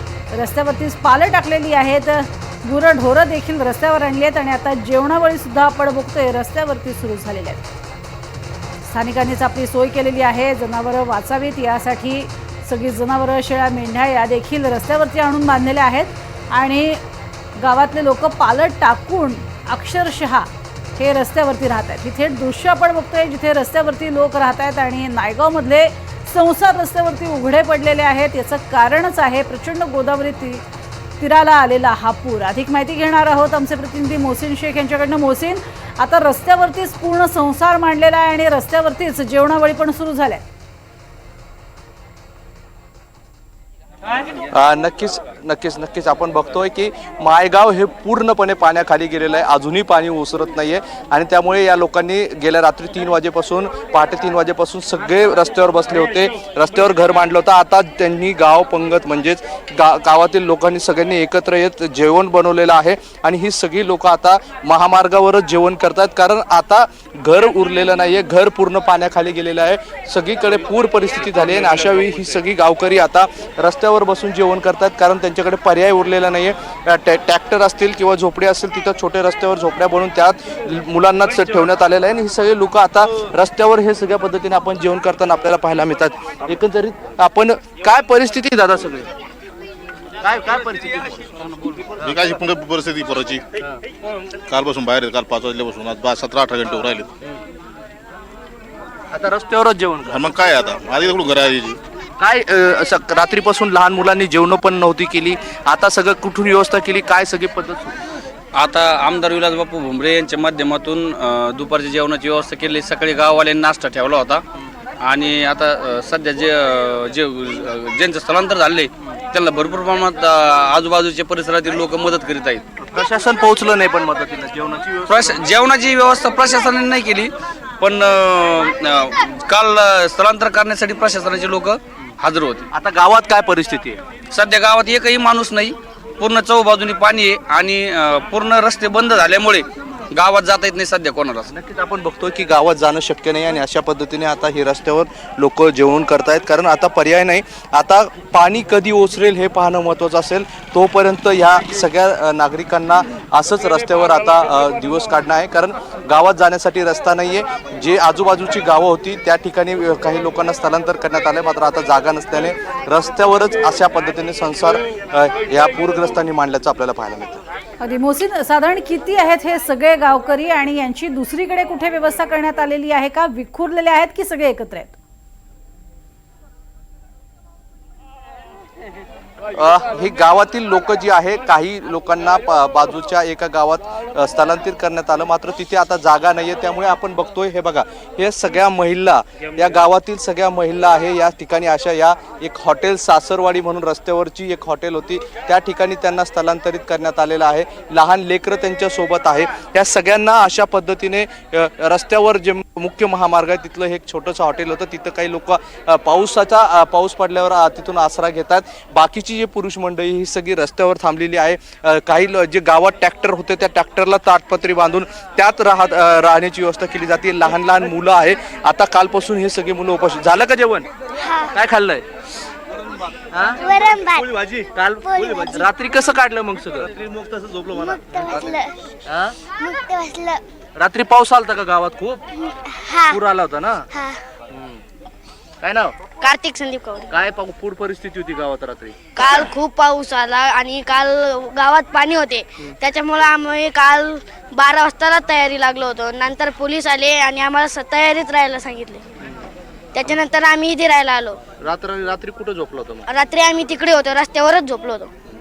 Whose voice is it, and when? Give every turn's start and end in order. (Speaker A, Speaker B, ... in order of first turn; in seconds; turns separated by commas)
Speaker A: 0.3-7.7, Speaker A: 8.9-17.0, Speaker A: 17.6-30.6, Speaker A: 31.2-40.4, Speaker B: 44.5-89.1, Speaker B: 90.2-91.3, Speaker C: 92.0-93.4, Speaker C: 94.5-97.1, Speaker B: 99.1-100.3, Speaker C: 100.1-101.8, Speaker B: 102.2-108.0, Speaker D: 108.5-114.4, Speaker D: 115.0-122.6, Speaker B: 122.8-125.5, Speaker D: 125.1-132.7, Speaker B: 132.7-134.0, Speaker D: 134.3-141.5, Speaker B: 141.5-167.4, Speaker A: 167.8-175.0, Speaker B: 179.5-220.9, Speaker E: 221.2-221.6, Speaker B: 221.5-222.1, Speaker B: 223.3-223.6, Speaker E: 223.6-224.3, Speaker B: 224.2-228.5, Speaker E: 225.0-225.7, Speaker E: 227.7-228.8, Speaker B: 229.1-229.4, Speaker E: 229.4-230.4, Speaker B: 230.8-232.2, Speaker E: 232.4-233.2, Speaker B: 233.1-233.9, Speaker E: 233.9-234.2, Speaker B: 234.5-234.8, Speaker B: 235.6-236.0, Speaker E: 236.2-237.1, Speaker B: 237.1-239.4, Speaker E: 239.2-249.1, Speaker E: 249.9-251.4, Speaker B: 251.6-253.1, Speaker E: 253.1-255.1